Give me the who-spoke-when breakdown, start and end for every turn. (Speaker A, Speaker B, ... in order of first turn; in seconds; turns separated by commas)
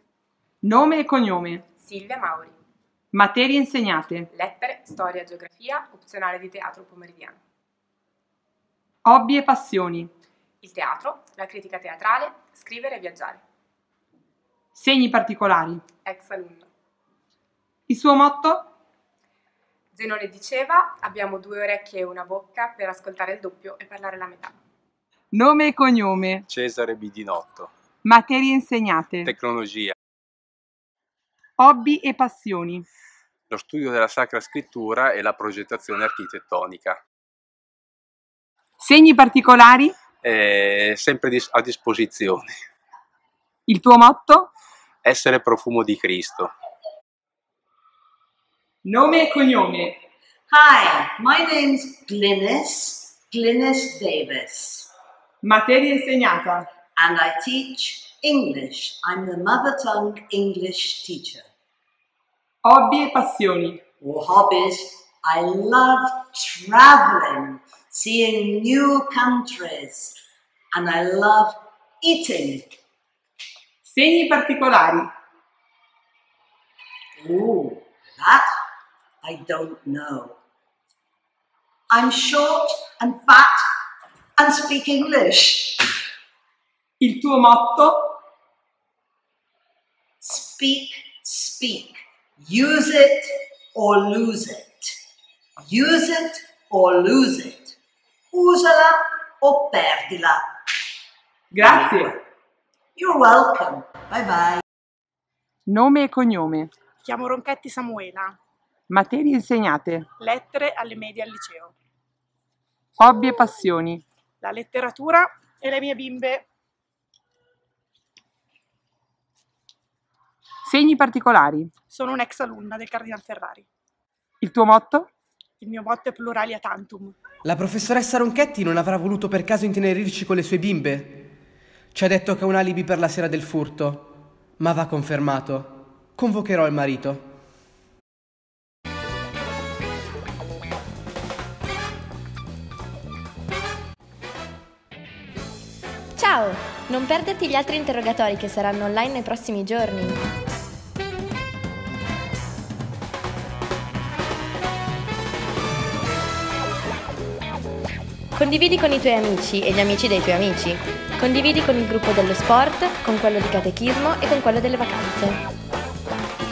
Speaker A: 0.6-1.6, Speaker B: 1.8-2.5, Speaker A: 3.1-4.3, Speaker B: 4.3-7.4, Speaker A: 9.1-10.1, Speaker B: 10.6-13.4, Speaker A: 14.7-15.8, Speaker B: 16.0-16.7, Speaker A: 17.9-18.7, Speaker B: 19.9-24.6, Speaker A: 25.3-26.4, Speaker C: 26.5-27.7, Speaker A: 28.0-29.3, Speaker C: 29.2-29.9, Speaker A: 31.6-32.8, Speaker C: 33.5-37.0, Speaker A: 38.8-39.9, Speaker C: 40.2-42.5, Speaker A: 43.7-44.5, Speaker C: 45.0-46.5, Speaker A: 48.8-50.0, Speaker D: 50.5-54.9, Speaker A: 55.4-56.7, Speaker D: 57.0-61.4, Speaker A: 62.6-63.8, Speaker D: 64.0-70.2, Speaker D: 70.7-72.8, Speaker A: 73.8-75.1, Speaker D: 77.2-78.5, Speaker D: 79.2-80.4, Speaker D: 81.9-83.6, Speaker D: 84.4-85.9, Speaker A: 87.0-88.2, Speaker D: 90.2-94.9, Speaker D: 95.6-97.8, Speaker D: 98.3-100.4, Speaker A: 101.5-102.2, Speaker D: 101.5-102.2, Speaker D: 103.0-104.6, Speaker A: 105.7-106.7, Speaker E: 107.0-108.4, Speaker A: 108.9-110.1, Speaker E: 110.2-111.7, Speaker A: 113.0-114.0, Speaker E: 114.4-116.5, Speaker A: 120.6-121.7, Speaker E: 121.9-123.7, Speaker A: 124.4-125.1, Speaker E: 125.6-127.2, Speaker F: 127.4-131.2, Speaker F: 131.9-137.2, Speaker G: 146.2-150.2, Speaker G: 158.3-165.4